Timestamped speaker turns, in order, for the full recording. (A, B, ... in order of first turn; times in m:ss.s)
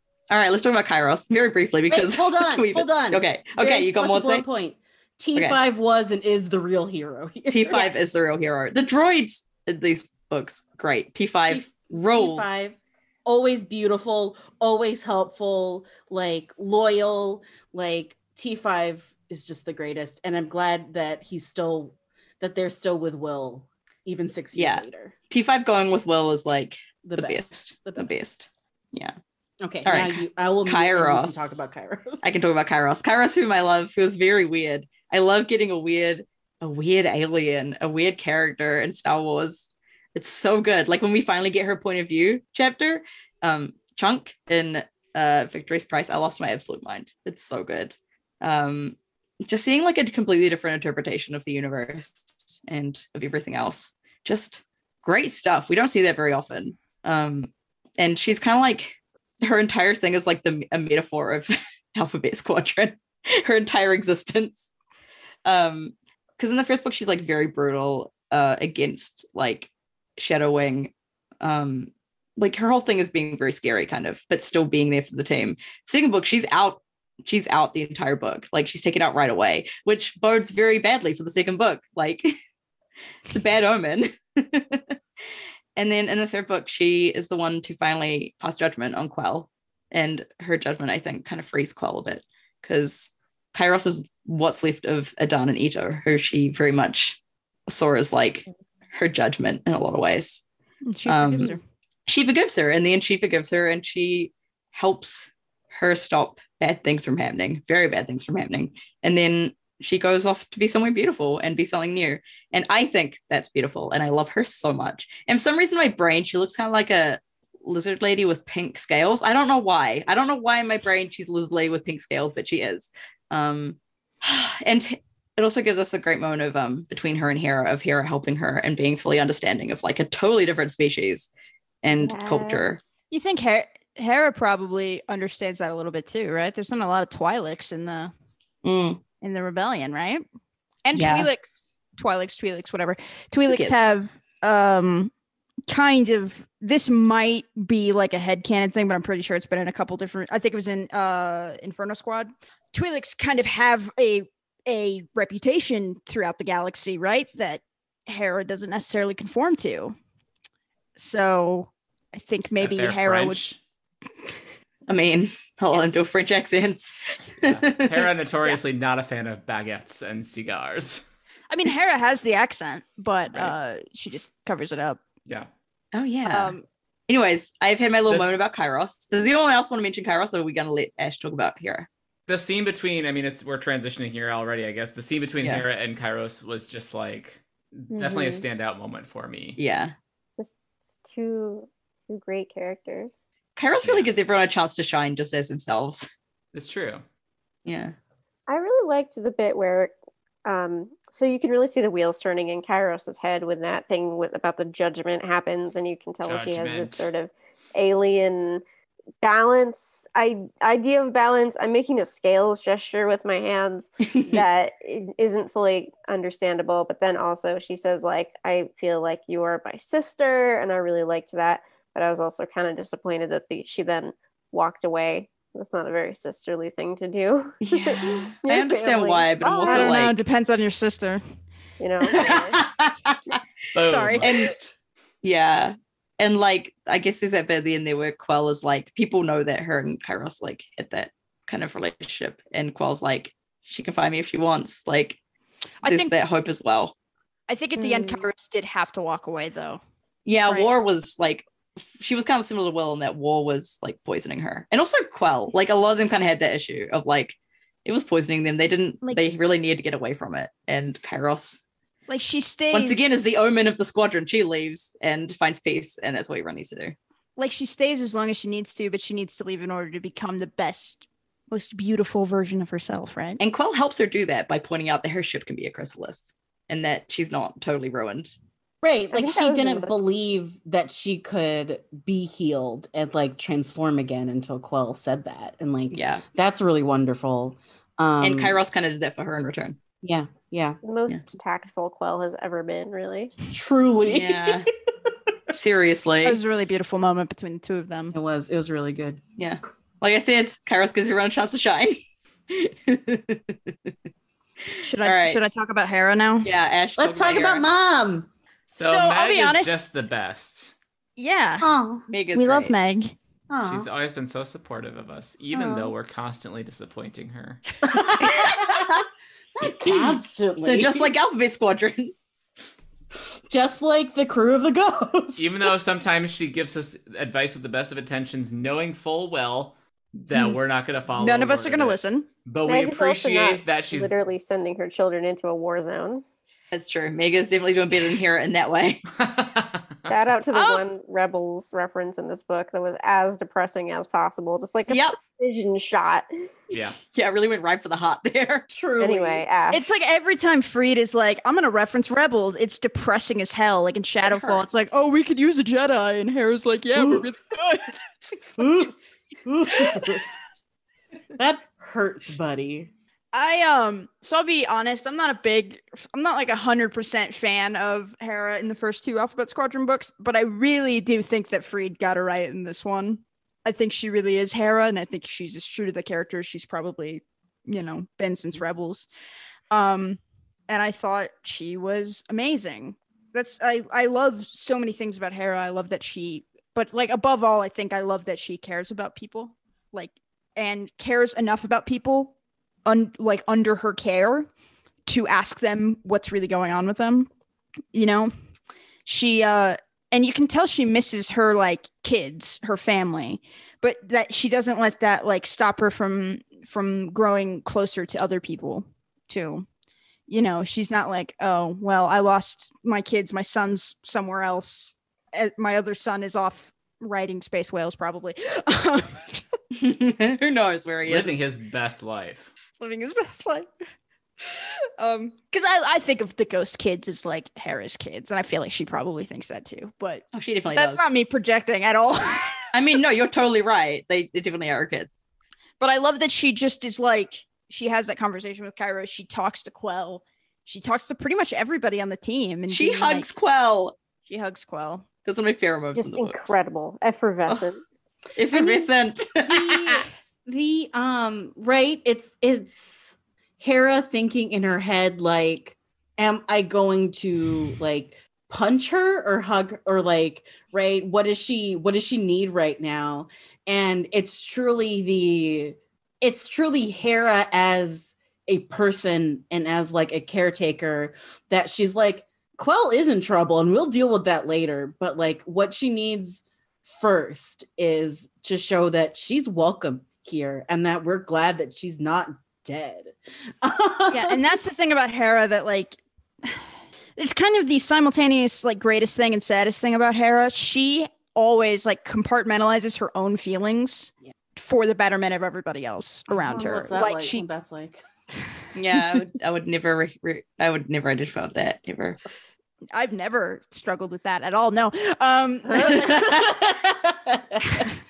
0:00.3-0:04.4 A
0:01.9-0:08.0 B
0:07.5-0:12.5 A
0:11.5-0:25.1 B
0:24.5-0:29.1 A
0:27.0-0:28.1 B
0:29.6-0:32.3 B
0:29.8-0:31.7 A
0:32.2-1:04.7 A
1:05.4-1:22.3 A
1:23.3-1:24.9 A
1:25.8-1:40.4 A
1:40.9-1:41.6 C
1:41.0-1:41.6 A
1:42.1-2:11.3 A
2:11.8-2:12.8 A
2:11.9-2:12.8 D
2:13.1-2:18.1 C
2:18.6-2:19.0 A
2:19.2-2:20.2 C
2:20.8-2:25.1 C
2:20.9-2:21.3 A
2:23.5-2:23.8 A
2:25.7-2:39.9 C
2:41.0-2:43.4 C
2:42.6-2:43.6 E
2:44.9-2:48.1 A
2:47.4-2:51.0 E
2:51.5-2:55.0 C
2:55.9-2:56.6 A
2:56.2-2:56.6 C
2:57.1-3:01.9 A
2:58.1-2:58.4 E
3:02.3-3:09.6 E
3:07.9-3:08.4 D
3:09.6-3:09.9 A
3:10.4-3:13.2 D
3:13.6-3:16.0 A
3:13.8-3:14.1 E
3:16.5-3:17.0 E
3:17.6-3:17.9 A
3:18.5-3:19.9 D
3:20.4-3:28.6 D
3:26.2-3:27.1 E
3:29.2-3:50.0 D
3:34.0-3:34.4 A
3:47.6-3:50.2 A
3:49.6-3:51.2 C
3:51.8-3:52.6 D
3:52.1-3:52.7 A
3:53.7-3:54.4 E
3:53.8-3:54.4 C
3:54.2-3:54.5 A
3:55.2-4:05.2 A
4:05.8-4:06.1 C
4:05.8-4:06.9 A
4:07.5-4:09.8 C
4:07.8-4:08.3 D
4:10.2-4:21.6 A
4:22.1-4:23.1 C
4:22.7-4:27.0 A
4:27.4-4:33.4 C
4:33.4-4:38.3 A
4:38.8-4:48.6 B
4:39.1-4:40.0 D
4:45.9-4:46.2 A
4:48.2-4:49.8 A
4:50.0-4:50.8 B
4:50.8-4:53.3 D
4:53.5-4:54.6 B
4:54.0-4:54.7 A
4:55.5-4:56.4 A
4:56.2-4:58.1 C
4:58.1-4:59.2 B
4:59.4-5:02.0 A
5:02.5-5:03.7 A
5:04.7-5:05.4 A
5:04.8-5:06.5 C
5:06.4-5:07.6 A
5:07.0-5:08.3 B
5:08.7-5:10.7 E
5:08.8-5:09.8 C
5:11.2-5:11.7 C
5:11.6-5:12.0 B
5:12.1-5:12.7 A
5:12.3-5:13.1 C
5:13.5-5:13.9 B
5:13.6-5:17.6 E
5:15.5-5:15.9 B
5:17.8-5:19.0 B
5:19.6-5:21.1 B
5:19.9-5:22.1 A
5:23.5-5:25.7 B
5:25.4-5:34.1 E
5:31.2-5:32.3 C
5:32.6-5:36.2 D
5:36.7-5:39.0 A
5:39.2-5:40.1 E
5:40.1-5:46.3 D
5:40.5-5:40.8 C
5:44.9-5:45.2 A
5:46.7-5:47.0 E
5:47.1-5:48.7 A
5:48.7-5:49.4 B
5:49.0-5:49.8 D
5:49.7-5:58.7 C
5:54.2-5:54.6 A
5:56.9-5:57.2 B
5:58.6-5:58.9 B
5:59.4-6:00.2 B
5:59.8-6:00.2 C
6:01.4-6:02.9 B
6:03.3-6:19.1 C
6:19.7-6:32.3 C
6:32.8-6:34.5 C
6:35.0-6:37.3 C
6:37.9-6:38.3 C
6:39.0-6:49.6 C
6:50.3-6:59.4 C
6:59.7-7:01.4 A
7:01.0-7:02.5 E
7:02.8-7:03.7 C
7:04.4-7:10.2 C
7:10.3-7:11.1 A
7:10.7-7:12.7 C
7:12.7-7:15.2 A
7:15.8-7:23.3 C
7:22.7-7:24.0 A
7:24.2-7:25.0 C
7:25.2-7:26.5 A
7:25.9-7:27.8 D
7:28.4-7:30.0 A
7:29.5-7:29.9 B
7:29.7-7:30.1 C
7:30.4-8:04.4 B
8:04.1-8:06.6 C
8:07.2-8:17.4 C
8:16.3-8:18.0 B
8:18.7-8:22.2 A
8:22.9-8:26.3 C
8:25.7-8:27.8 B